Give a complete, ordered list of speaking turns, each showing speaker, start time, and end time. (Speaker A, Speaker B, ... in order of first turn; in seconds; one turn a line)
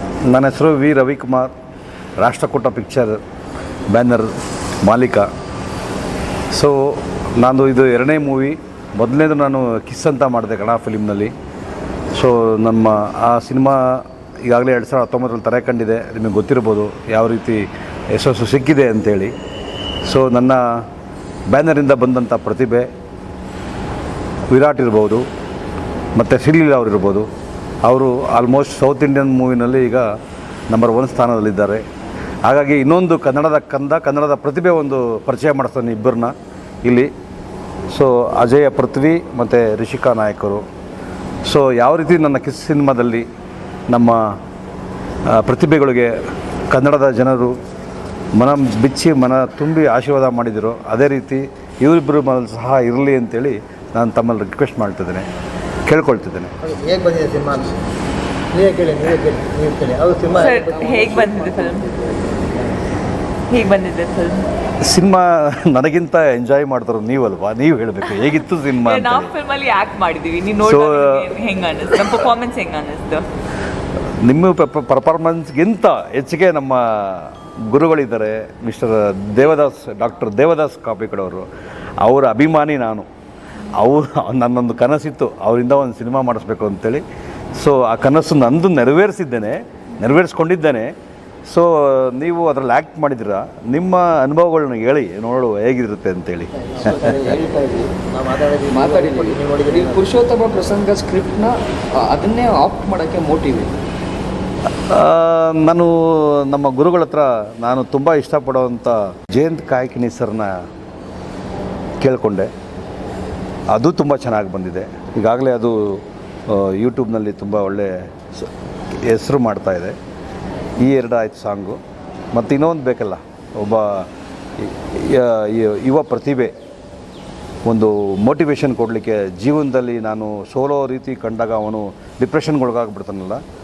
Speaker A: 0.3-1.5
Speaker A: 2.2-3.2
Speaker A: 3.9-4.3
Speaker A: 4.8-5.3
Speaker A: 6.5-11.3
Speaker A: 12.1-19.3
Speaker A: 20.1-20.9
Speaker A: 21.5-22.9
Speaker A: 24.5-25.2
Speaker A: 26.1-27.3
Speaker A: 27.8-30.1
Speaker A: 30.7-31.8
Speaker A: 32.5-36.3
Speaker A: 37.9-40.6
Speaker A: 41.5-43.2
Speaker A: 43.9-44.4
Speaker A: 45.3-46.1
Speaker A: 46.7-47.6
Speaker A: 48.4-55.3
Speaker A: 55.9-56.5
Speaker B: 56.6-57.8
Speaker B: 58.5-61.2
Speaker C: 60.4-61.9
Speaker D: 60.6-62.7
Speaker C: 63.5-64.5
Speaker A: 64.8-69.3
Speaker C: 68.2-73.2
Speaker A: 70.6-71.3
Speaker A: 74.2-81.5
Speaker A: 82.0-83.1
Speaker A: 83.7-87.0
Speaker A: 87.6-90.9
Speaker A: 91.5-97.4
Speaker B: 96.8-97.3
Speaker D: 96.9-97.9
Speaker B: 98.1-100.2
Speaker D: 98.7-103.8
Speaker A: 104.9-110.5
Speaker A: 112.0-112.5
Speaker A: 113.7-118.5
Speaker A: 119.0-120.0
Speaker A: 120.8-121.8
Speaker A: 122.3-126.5
Speaker A: 127.7-133.4